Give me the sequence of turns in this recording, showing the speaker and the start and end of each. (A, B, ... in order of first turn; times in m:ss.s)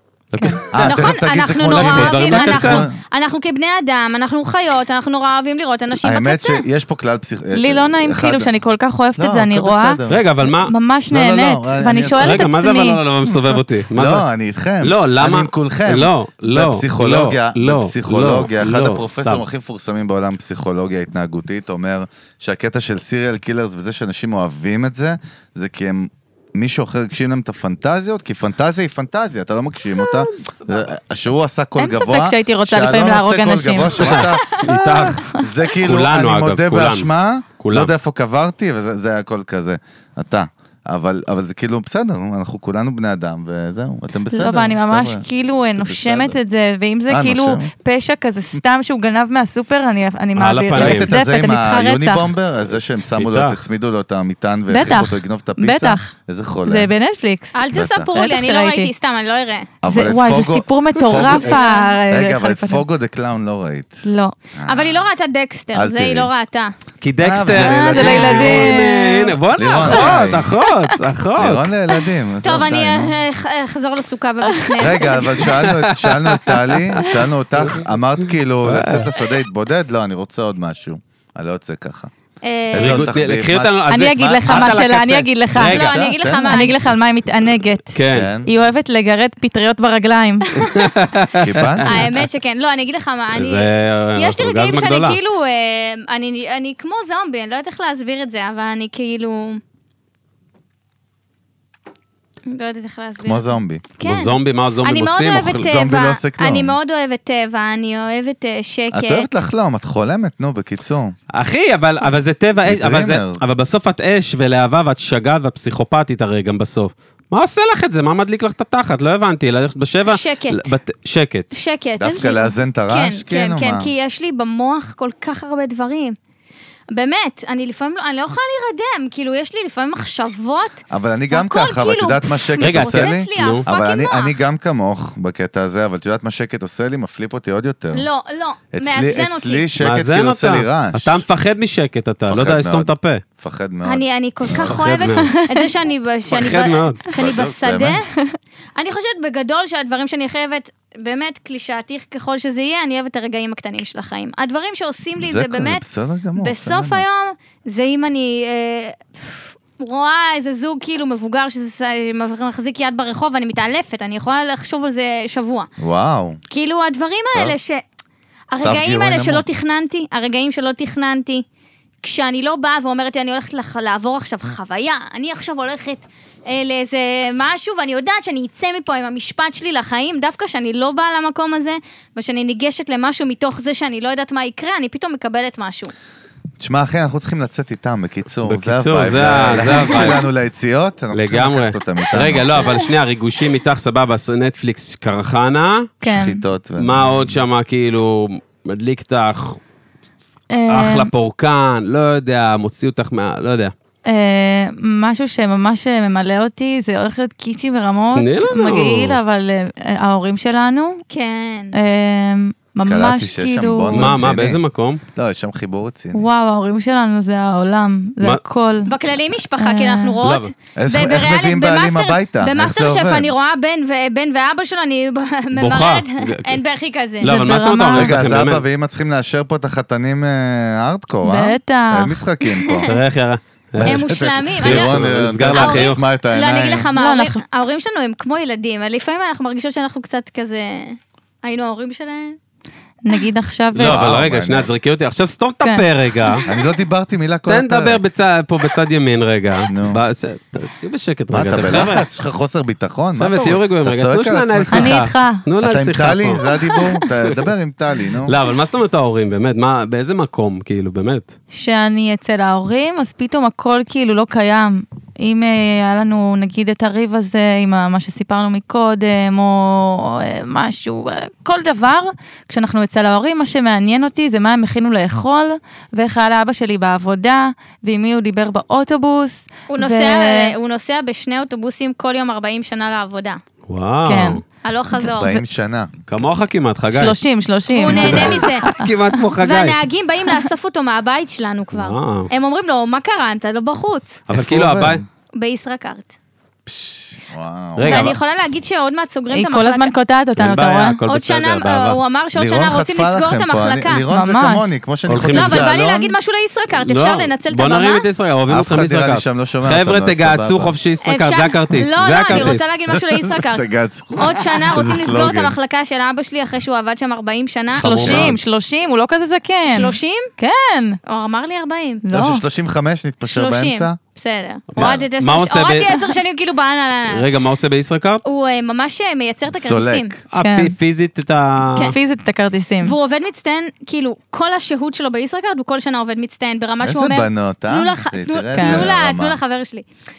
0:00.3-0:00.7 A
0:00.7-0:03.0 B
0:00.8-0:06.6 C
0:01.7-0:02.9 A
0:06.0-0:08.5 B
0:07.5-0:13.0 D
0:09.2-0:10.2 B
0:10.1-0:10.7 A
0:11.1-0:12.4 B
0:12.0-0:14.2 A
0:13.9-0:45.2 B
0:14.8-0:19.4 A
0:30.1-0:30.9 A
0:31.8-0:34.0 D
0:34.0-0:37.1 A
0:37.6-0:37.9 A
0:44.3-0:52.2 D
0:45.8-0:46.4 B
0:47.1-0:47.7 B
0:50.4-0:51.1 A
0:50.7-0:56.9 B
0:53.2-0:53.6 A
0:54.7-0:56.1 D
0:56.7-0:57.6 D
0:57.5-0:59.7 C
0:57.7-0:58.1 B
0:58.1-0:58.9 D
0:59.8-1:05.0 B
0:59.8-1:02.8 D
1:01.3-1:01.8 C
1:04.0-1:04.3 D
1:04.6-1:06.7 C
1:05.7-1:06.3 B
1:07.0-1:11.7 A
1:07.2-1:08.8 B
1:07.5-1:09.4 D
1:09.6-1:10.5 B
1:11.4-1:13.1 B
1:12.4-1:15.5 C
1:14.8-1:22.1 B
1:15.5-1:17.8 A
1:18.6-1:19.1 A
1:22.4-1:23.1 C
1:22.7-1:24.8 B
1:22.7-1:26.0 A
1:23.9-1:25.8 D
1:25.6-1:26.7 B
1:25.7-1:26.8 C
1:26.4-1:30.5 D
1:27.9-1:28.3 A
1:28.1-1:28.5 B
1:30.6-1:32.2 A
1:31.4-1:32.2 B
1:31.8-1:39.6 C
1:33.3-1:35.2 A
1:42.5-1:49.3 C
1:43.2-1:43.8 B
1:44.0-1:45.7 A
1:45.6-1:46.8 B
1:48.9-1:51.1 B
1:51.3-2:01.5 A
1:52.6-1:53.4 B
2:00.1-2:00.7 C
2:01.5-2:06.2 C
2:02.0-2:03.9 B
2:06.9-2:14.4 C
2:10.9-2:18.1 B
2:12.6-2:13.6 A
2:17.9-2:19.7 C
2:18.7-2:21.2 B
2:19.8-2:23.2 A
2:22.2-2:25.2 B
2:23.8-2:28.1 C
2:24.6-2:25.3 A
2:25.4-2:25.6 D
2:26.3-2:27.0 A
2:27.1-2:28.0 B
2:28.8-2:35.8 C
2:35.2-2:37.0 B
2:36.4-2:45.7 C
2:45.8-2:46.4 B
2:46.5-2:47.8 C
2:48.5-2:51.4 C
2:48.6-2:49.4 B
2:52.0-3:05.9 C
3:06.6-3:12.8 B
3:08.4-3:10.2 A
3:11.1-3:15.9 A
3:16.0-3:16.4 D
3:16.0-3:17.4 B
3:16.8-3:19.6 A
3:20.5-3:21.1 D
3:20.7-3:23.7 A
3:24.0-3:31.0 D
3:28.1-3:29.2 A
3:31.1-3:31.8 C
3:31.7-3:34.2 D
3:32.8-3:34.6 B
3:33.9-3:35.0 A
3:35.1-3:36.2 B
3:36.1-3:38.9 D
3:38.9-3:47.3 C
3:39.6-3:40.2 D
3:40.2-3:40.5 A
3:40.7-3:43.3 B
3:45.5-3:46.6 A
3:47.2-3:48.6 A
3:47.2-3:48.2 D
3:47.9-3:52.9 B
3:51.2-3:52.2 D
3:52.6-3:52.9 C
3:52.8-3:56.0 A
3:53.8-3:56.9 B
3:53.8-3:55.0 C
3:55.5-4:02.4 C
3:56.9-3:57.4 D
4:03.0-4:04.0 D
4:03.7-4:06.4 A
4:03.8-4:04.7 B
4:06.4-4:08.0 B
4:07.5-4:12.0 A
4:09.7-4:10.0 B
4:11.3-4:15.0 B
4:13.2-4:16.5 A
4:14.7-4:15.4 D
4:15.6-4:18.4 B
4:18.2-4:21.3 A
4:21.5-4:40.5 D
4:39.7-4:43.4 C
4:43.7-4:44.4 A
4:44.0-4:44.4 D
4:44.6-4:45.4 C
4:45.0-4:45.9 B
4:46.1-4:47.2 A
4:46.9-4:48.9 D
4:47.7-4:48.7 C
4:47.9-4:48.6 B
4:47.9-4:49.8 A
4:49.4-4:54.2 C
4:51.7-4:52.3 A
4:54.3-4:55.0 A
4:54.3-4:55.0 B
4:55.4-4:56.1 C
4:56.6-4:58.2 B
4:57.8-4:58.2 A
4:57.8-4:59.9 C
4:59.3-5:01.0 D
5:00.4-5:02.0 A
5:01.1-5:04.0 C
5:02.3-5:06.1 B
5:04.1-5:04.7 D
5:05.1-5:05.7 A
5:05.3-5:08.0 C
5:06.7-5:12.7 A
5:08.5-5:10.7 B
5:11.0-5:18.2 C
5:12.3-5:15.6 B
5:17.7-5:18.4 A
5:17.8-5:21.0 D
5:18.0-5:18.4 B
5:19.7-5:20.3 C
5:21.1-5:22.0 C
5:22.0-5:22.4 D
5:22.1-5:24.0 B
5:23.2-5:27.3 C
5:24.7-5:26.0 A
5:24.8-5:25.0 B
5:27.1-5:28.2 A
5:28.2-5:30.1 C
5:29.5-5:30.2 B
5:30.3-5:31.9 A
5:30.4-5:30.7 D
5:31.8-5:32.9 D
5:32.8-5:39.9 C
5:36.8-5:39.4 B
5:38.5-5:38.8 D